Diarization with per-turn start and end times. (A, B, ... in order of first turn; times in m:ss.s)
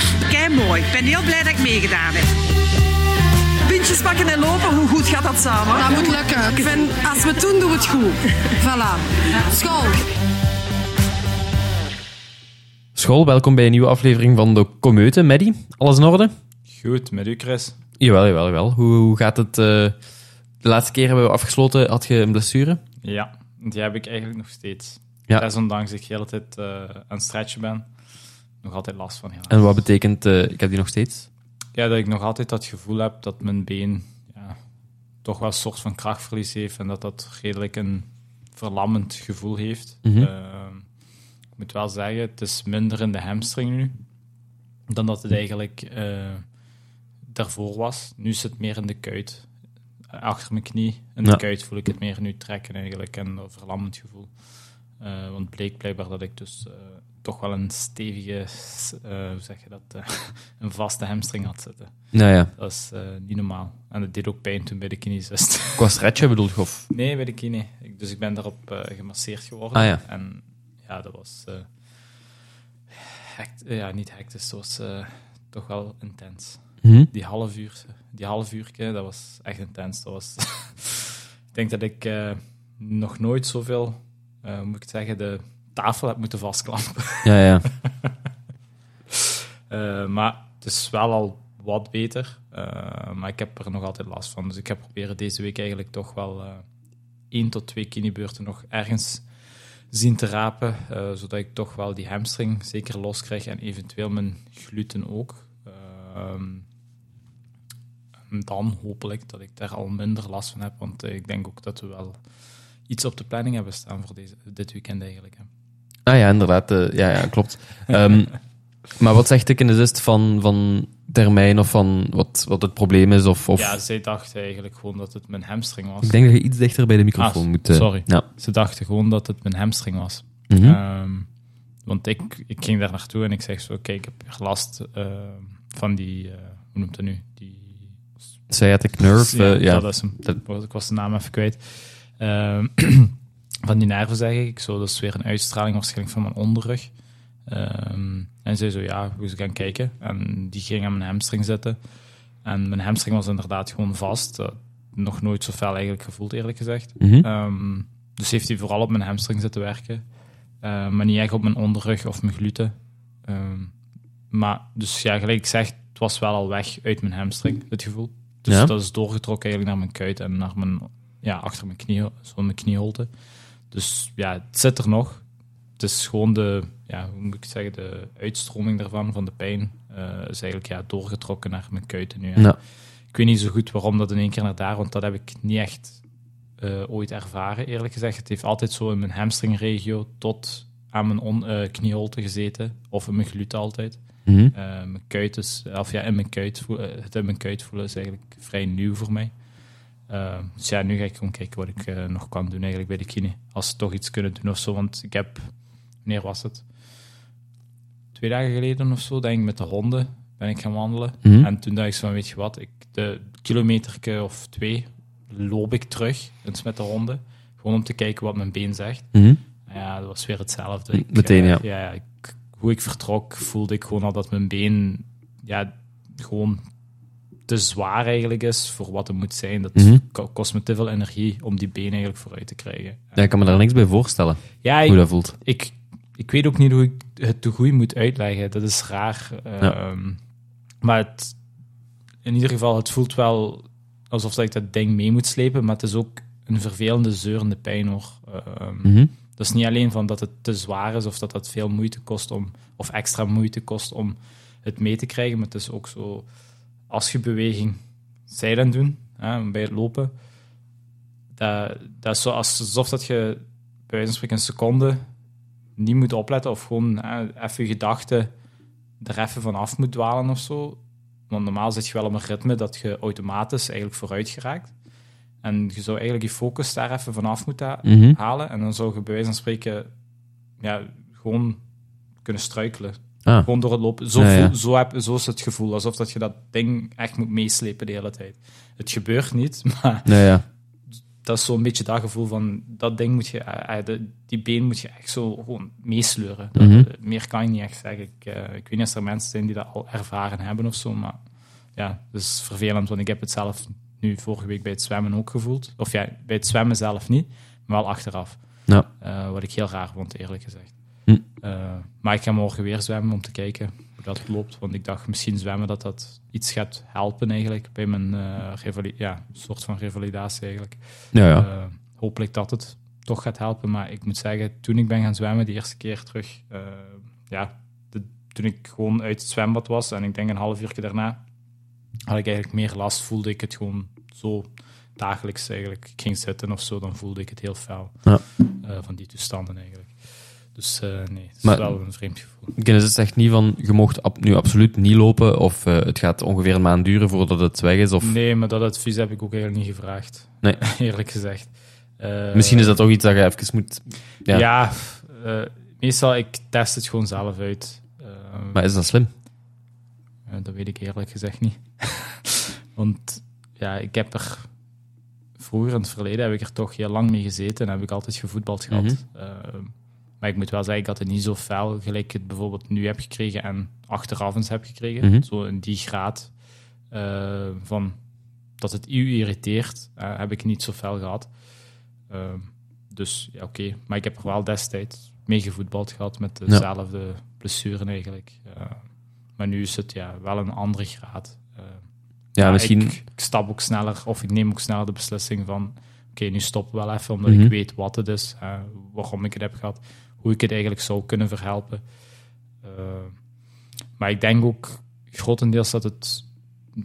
0:00.3-0:02.3 A
0:03.7-0:06.1 A
0:05.7-0:10.0 B
0:12.9-0:16.3 C
0:16.7-0:17.8 D
0:18.0-0:20.0 C
0:20.6-0:22.8 C
0:23.0-0:27.9 D
0:28.6-0:29.6 D
0:29.5-0:31.3 C
0:31.7-0:34.6 D
0:35.2-0:40.8 D
0:40.0-0:40.3 C
0:41.6-0:44.0 D
0:44.9-0:46.4 D
0:47.3-0:49.5 D
0:50.1-0:54.3 D
0:55.0-1:01.9 D
1:02.1-1:02.5 C
1:02.5-1:05.9 D
1:05.8-1:06.9 C
1:06.9-1:11.7 D
1:09.7-1:10.0 C
1:12.9-1:27.3 D
1:16.8-1:17.1 C
1:27.2-1:27.7 C
1:29.1-1:36.6 D
1:37.3-1:39.2 D
1:39.9-1:46.6 D
1:48.3-1:52.2 D
1:52.9-1:55.5 D
1:56.0-1:58.4 C
1:58.9-2:03.8 C
2:03.6-2:06.2 D
2:06.0-2:08.2 C
2:07.2-2:11.3 D
2:10.5-2:10.8 C
2:11.8-2:18.0 D
2:18.5-2:20.4 C
2:19.2-2:26.9 D
2:27.5-2:31.8 D
2:32.4-2:40.0 D
2:37.0-2:37.3 C
2:40.6-2:42.7 D
2:43.2-2:43.7 D
2:44.3-2:53.1 D
2:48.5-2:48.7 C
2:53.7-2:55.2 D
2:55.8-3:02.6 D
3:03.1-3:06.0 D
3:06.6-3:14.0 D
3:14.2-3:14.5 C
3:14.5-3:19.3 D
3:20.1-3:25.5 D
3:26.0-3:26.6 D
3:28.1-3:39.1 D
3:31.2-3:31.5 C
3:39.1-3:39.4 C
3:39.7-3:46.6 D
3:40.9-3:41.6 C
3:47.5-3:53.6 D
3:49.8-3:50.0 C
3:53.2-3:55.3 C
3:54.6-4:00.2 D
4:00.8-4:01.4 D
4:02.2-4:16.2 D
4:08.8-4:09.1 C
4:16.9-4:20.1 D
4:21.4-4:25.0 D
4:25.8-4:28.3 D
4:29.0-4:34.7 D
4:35.4-4:39.9 D
4:37.8-4:38.2 C
4:40.6-4:41.6 D
4:42.2-4:50.1 D
4:44.2-4:44.5 C
4:50.0-4:50.4 C
4:51.2-5:01.2 D
4:56.6-4:56.9 C
5:01.8-5:08.4 D
5:09.0-5:10.7 D
5:11.4-5:31.2 D
5:21.1-5:21.5 C
5:32.1-5:38.0 D
5:38.6-5:40.0 D
5:40.5-5:42.5 D
5:41.4-5:41.7 C
5:42.5-5:48.1 C
5:48.0-5:52.8 D
5:52.3-5:54.4 C
5:54.3-5:58.6 D
5:58.5-5:59.1 C
6:00.3-6:04.5 D
6:05.4-6:16.3 D
6:08.7-6:09.0 C
6:15.0-6:15.2 C
6:16.9-6:18.0 D
6:18.6-6:21.3 D
6:22.1-6:28.8 D
6:29.4-6:31.8 D
6:32.3-6:41.8 D
6:32.4-6:32.9 C
6:37.2-6:37.5 C
6:42.6-6:43.2 D
6:44.0-6:46.2 D